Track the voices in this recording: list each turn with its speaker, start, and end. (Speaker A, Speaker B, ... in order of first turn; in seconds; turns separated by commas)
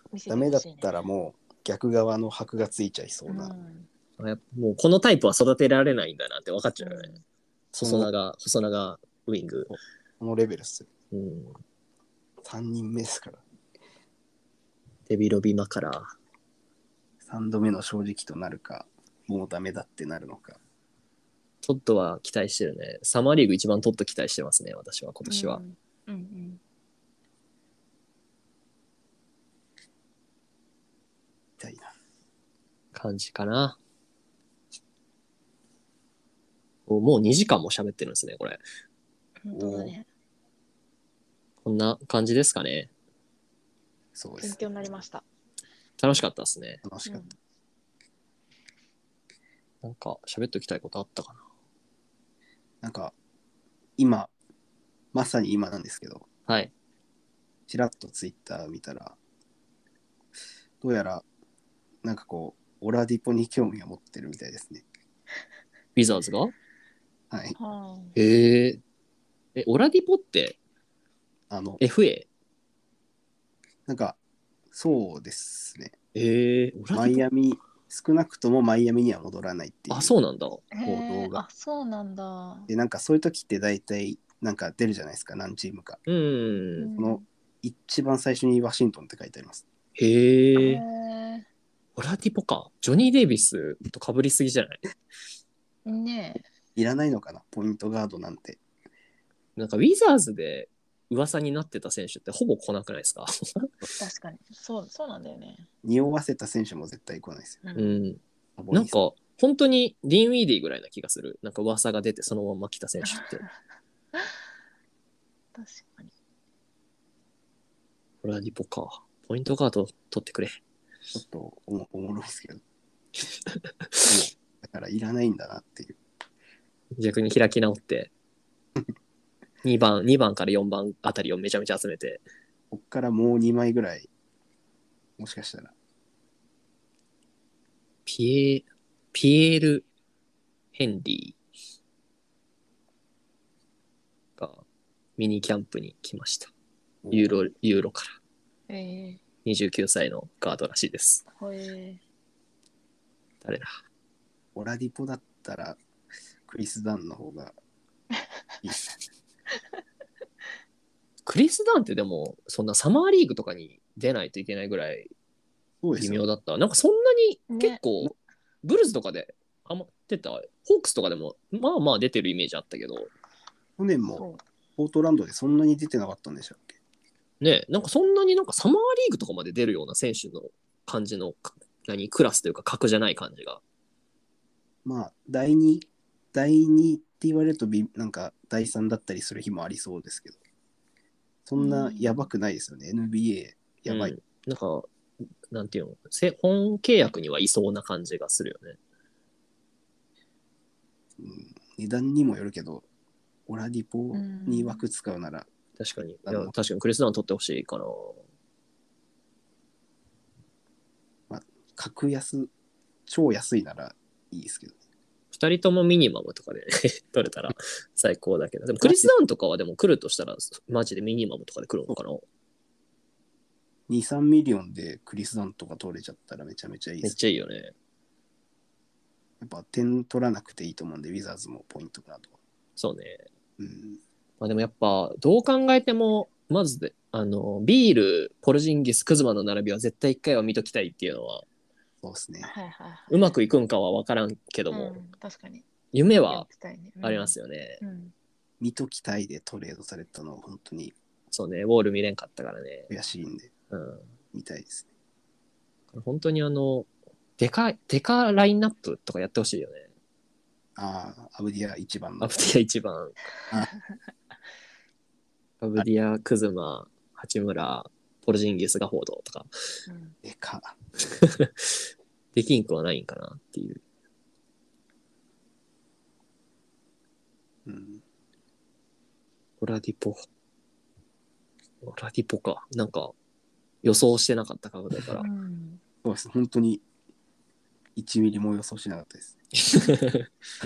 Speaker A: 0.1-0.9, Speaker B: 0.3-3.5, Speaker A: 3.3-3.9, Speaker C: 4.2-7.2, Speaker A: 6.8-7.2, Speaker C: 7.7-9.8, Speaker B: 7.8-8.1, Speaker B: 9.7-10.9, Speaker C: 11.1-11.6, Speaker B: 12.4-13.4, Speaker C: 15.1-16.1, Speaker B: 17.2-20.6, Speaker C: 21.6-25.6, Speaker A: 25.2-26.6, Speaker B: 31.6-31.9, Speaker C: 32.9-33.8, Speaker C: 36.9-38.6, Speaker A: 39.4-40.0, Speaker B: 39.5-39.9, Speaker C: 41.6-42.9, Speaker B: 44.1-44.6, Speaker A: 44.4-45.2, Speaker C: 46.0-46.8, Speaker B: 46.8-47.2, Speaker A: 47.0-47.3, Speaker C: 49.8-51.4, Speaker B: 52.8-53.1, Speaker B: 54.0-54.3, Speaker B: 55.1-56.3, Speaker B: 57.7-59.2, Speaker B: 60.8-61.2, Speaker B: 62.0-64.8, Speaker C: 66.0-66.5, Speaker B: 67.3-67.5, Speaker A: 67.5-68.2, Speaker C: 68.2-68.8, Speaker C: 69.5-70.6, Speaker B: 71.5-71.8, Speaker C: 71.8-72.3, Speaker B: 73.8-74.2, Speaker B: 74.7-75.9, Speaker C: 76.1-77.2, Speaker B: 76.9-80.1, Speaker C: 79.9-80.7, Speaker A: 80.7-82.7, Speaker B: 80.8-81.4, Speaker B: 82.7-86.0, Speaker C: 86.1-86.9, Speaker A: 86.8-87.2, Speaker B: 86.9-89.6, Speaker C: 90.0-90.8, Speaker A: 90.5-91.5, Speaker C: 92.0-94.8, Speaker A: 95.8-96.4, Speaker B: 96.8-98.6, Speaker C: 99.5-103.7, Speaker A: 104.0-105.7, Speaker B: 105.8-107.6, Speaker A: 107.6-108.0, Speaker C: 107.7-113.4, Speaker B: 108.6-109.0, Speaker A: 113.0-113.5, Speaker A: 115.5-116.1, Speaker C: 118.2-120.6, Speaker B: 121.1-122.6, Speaker C: 123.8-124.2, Speaker B: 124.1-126.0, Speaker C: 127.0-128.1, Speaker C: 129.6-132.2, Speaker B: 132.7-134.1, Speaker B: 135.2-135.7, Speaker C: 138.1-139.8, Speaker C: 140.7-141.4, Speaker C: 144.4-144.6, Speaker C: 145.2-146.5, Speaker B: 147.0-147.4, Speaker C: 147.1-148.1, Speaker A: 148.7-149.2, Speaker C: 149.4-151.2, Speaker A: 151.3-152.0, Speaker C: 153.4-153.7, Speaker B: 154.5-155.8, Speaker B: 156.5-157.5, Speaker B: 158.6-158.9, Speaker C: 161.2-165.1, Speaker B: 165.8-166.2, Speaker C: 166.0-168.1, Speaker A: 167.5-167.8, Speaker C: 168.6-173.1, Speaker B: 173.8-174.2, Speaker A: 174.1-174.4, Speaker B: 174.8-176.8, Speaker C: 177.4-183.6, Speaker B: 184.8-190.4, Speaker B: 191.4-194.1, Speaker A: 191.6-192.3, Speaker C: 193.9-194.9, Speaker C: 195.5-198.8, Speaker B: 201.2-202.8, Speaker B: 203.5-205.5, Speaker A: 204.1-204.8, Speaker C: 205.8-208.2, Speaker B: 206.2-206.5, Speaker B: 211.3-212.5, Speaker B: 213.1-214.8, Speaker C: 215.3-222.2, Speaker B: 218.8-219.1, Speaker B: 223.9-227.2, Speaker C: 227.0-227.7, Speaker B: 229.4-232.3, Speaker C: 232.8-233.2, Speaker B: 233.6-234.0, Speaker C: 234.4-241.4, Speaker B: 242.0-242.5, Speaker A: 242.4-243.3, Speaker C: 243.1-245.0, Speaker A: 244.7-245.7, Speaker C: 245.9-246.5, Speaker A: 246.3-248.1, Speaker C: 247.0-247.8, Speaker B: 248.6-250.9, Speaker C: 251.3-252.9, Speaker B: 252.9-253.5, Speaker C: 253.7-254.1, Speaker B: 254.3-254.9, Speaker C: 255.9-259.9, Speaker B: 260.8-262.4, Speaker C: 262.2-263.1, Speaker A: 263.4-264.0, Speaker C: 265.6-269.5, Speaker A: 269.9-270.2, Speaker B: 270.2-270.7, Speaker C: 271.0-271.8, Speaker C: 272.3-273.8, Speaker B: 277.6-278.0, Speaker C: 279.6-280.2, Speaker C: 281.8-283.1, Speaker C: 283.8-285.2, Speaker A: 285.2-285.8, Speaker B: 286.0-286.8, Speaker B: 287.9-289.4, Speaker C: 289.6-290.3